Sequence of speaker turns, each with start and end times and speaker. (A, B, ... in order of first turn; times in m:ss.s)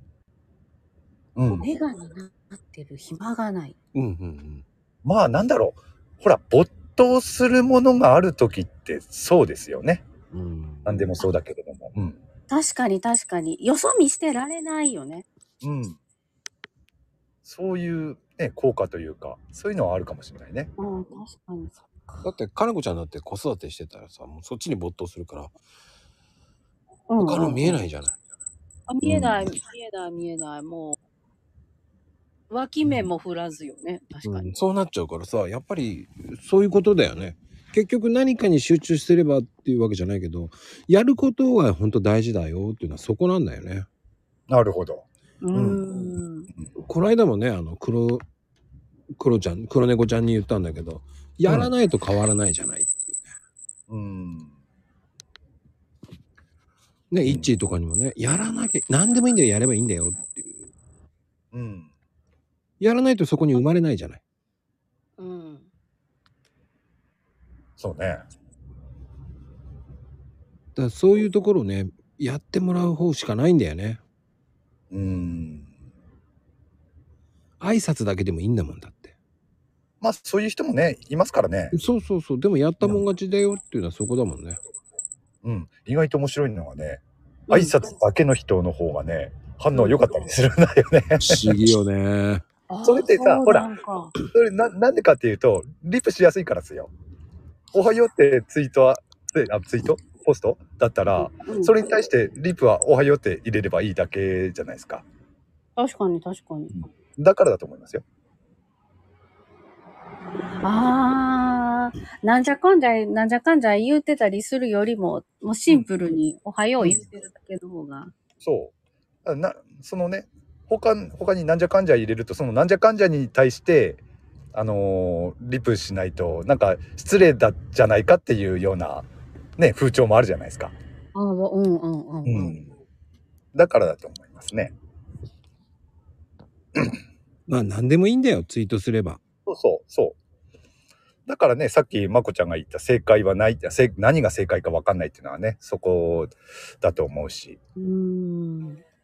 0:01.4-0:01.6 A
0:01.6-0:03.7 B
0:03.9-0:04.6 C
0:05.0-0:10.0 A
0:10.3-0:11.2 C
0:10.8-0:12.2 A
0:12.5-0:15.2 B
0:15.6-0:16.0 A
0:17.4-0:20.7 A
0:20.8-0:22.2 B
0:22.2-0:25.5 C
0:27.1-0:27.8 B
0:27.2-0:28.2 C
0:28.9-0:31.0 B
0:29.0-0:29.4 C
0:32.5-0:34.5 B
0:34.2-0:43.9 C
0:44.5-0:45.8 A
0:45.4-0:46.5 B
0:46.8-0:48.2 C
0:49.2-0:53.2 C
0:51.5-0:51.7 A
0:53.9-0:54.5 A
0:57.1-1:00.7 C
0:57.2-0:57.5 A
1:01.5-1:01.9 A
1:02.8-1:04.2 C
1:05.2-1:05.7 B
1:07.8-1:08.2 A
1:10.8-1:14.0 C
1:14.9-1:15.7 A
1:17.6-1:19.1 C
1:20.0-1:21.8 A
1:21.7-1:24.6 C
1:25.4-1:31.5 A
1:27.5-1:27.8 B
1:29.7-1:30.2 B
1:31.2-1:32.4 C
1:32.7-1:34.1 B
1:32.8-1:33.7 A
1:34.3-1:36.9 A
1:37.7-1:45.0 A
1:41.2-1:41.7 B
1:45.8-1:46.7 B
1:46.7-1:48.0 A
1:50.6-1:58.1 B
1:58.4-1:58.7 A
1:59.2-2:04.0 A
2:04.5-2:10.7 A
2:11.1-2:12.5 B
2:12.2-2:12.7 A
2:13.5-2:14.7 A
2:17.5-2:19.2 C
2:19.4-2:20.2 A
2:21.3-2:27.6 A
2:27.8-2:28.8 B